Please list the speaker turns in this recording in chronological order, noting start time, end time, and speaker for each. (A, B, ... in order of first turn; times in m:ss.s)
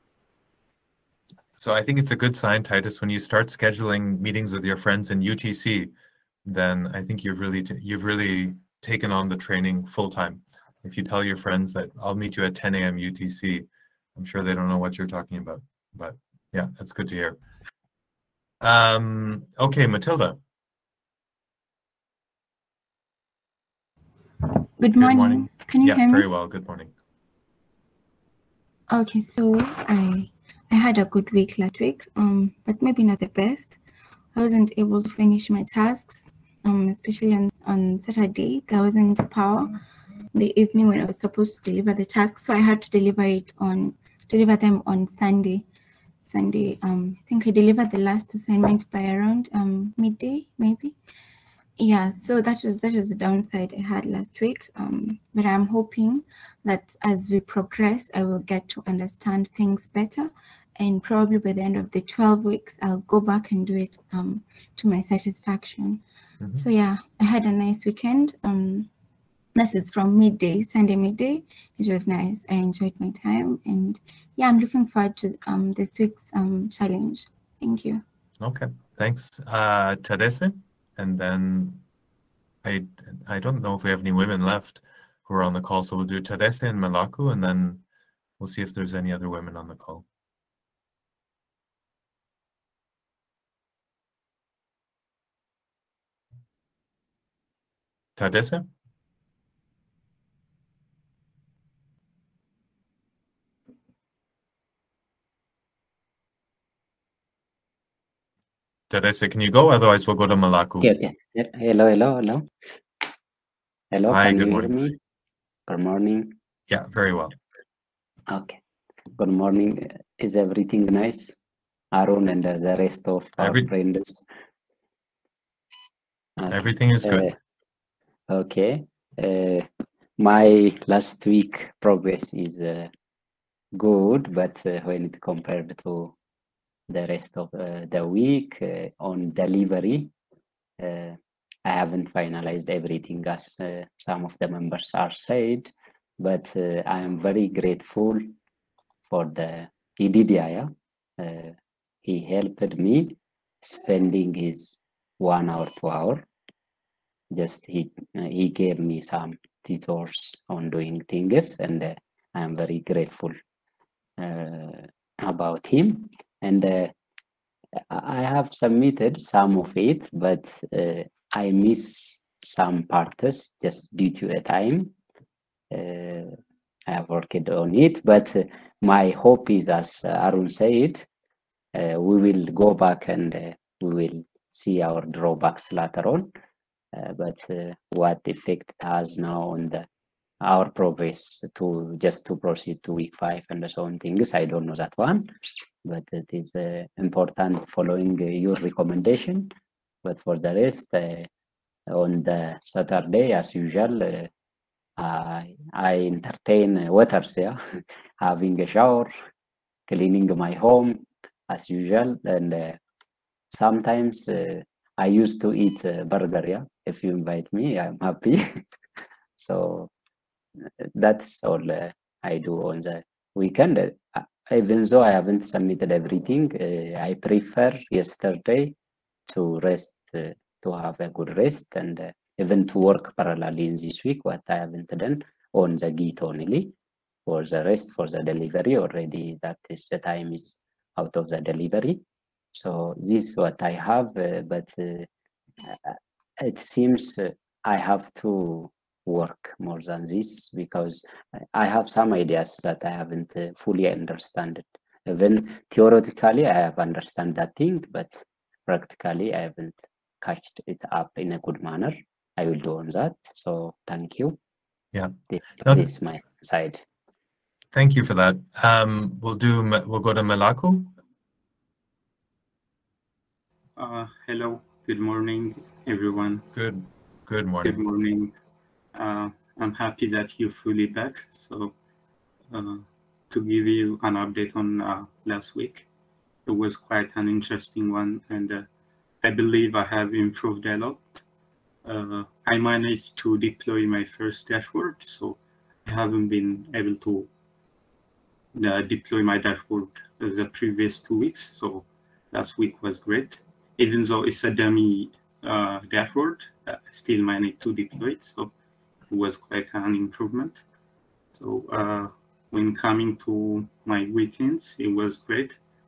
0:01.6-0:05.9 A
0:06.5-0:17.4 A
0:18.6-0:20.4 A
0:24.8-0:26.3 B
0:25.0-0:26.9 A
0:28.9-0:33.8 B
0:34.3-0:39.8 B
0:40.3-0:45.6 B
0:46.2-0:51.0 B
0:51.8-1:06.0 B
1:06.6-1:08.9 B
1:09.6-1:18.0 B
1:18.4-1:21.8 A
1:22.6-1:27.8 A
1:28.4-1:30.0 A
1:38.2-1:38.7 A
1:48.9-1:50.9 A
1:50.8-1:52.5 C
1:53.9-1:55.0 C
1:54.1-1:54.8 A
1:55.7-1:56.4 C
1:56.7-1:57.4 A
1:58.3-1:58.6 C
1:59.2-2:01.4 C
2:01.9-2:04.3 C
2:03.4-2:03.7 A
2:06.4-2:07.4 C
2:06.5-2:07.2 A
2:08.3-2:12.9 C
2:13.8-2:16.2 C
2:16.9-2:20.1 C
2:20.8-2:28.3 C
2:29.1-2:36.3 C
2:37.3-2:43.3 C
2:44.2-2:46.9 C
2:47.9-2:54.9 C
2:55.7-2:56.4 C
2:56.9-3:01.1 C
3:01.8-3:06.3 C
3:07.0-3:09.9 C
3:10.4-3:15.3 C
3:15.8-3:19.5 C
3:20.0-3:21.3 C
3:21.9-3:24.3 C
3:25.0-3:29.1 C
3:29.9-3:32.8 C
3:33.5-3:38.6 C
3:39.4-3:39.9 C
3:41.0-3:48.8 C
3:49.3-3:56.8 C
3:57.3-4:02.0 C
4:02.5-4:05.1 C
4:05.6-4:24.4 C
4:24.9-4:25.9 A
4:25.3-4:26.8 C
4:27.7-4:30.9 A
4:33.8-4:36.5 D
4:36.5-4:37.8 A
4:37.6-4:38.3 D
4:39.0-4:41.8 D
4:42.5-4:45.9 D
4:46.5-4:48.7 D
4:49.2-4:51.2 D
4:51.8-4:57.3 D
4:58.5-5:08.5 D
5:09.1-5:10.6 D
5:11.4-5:15.6 D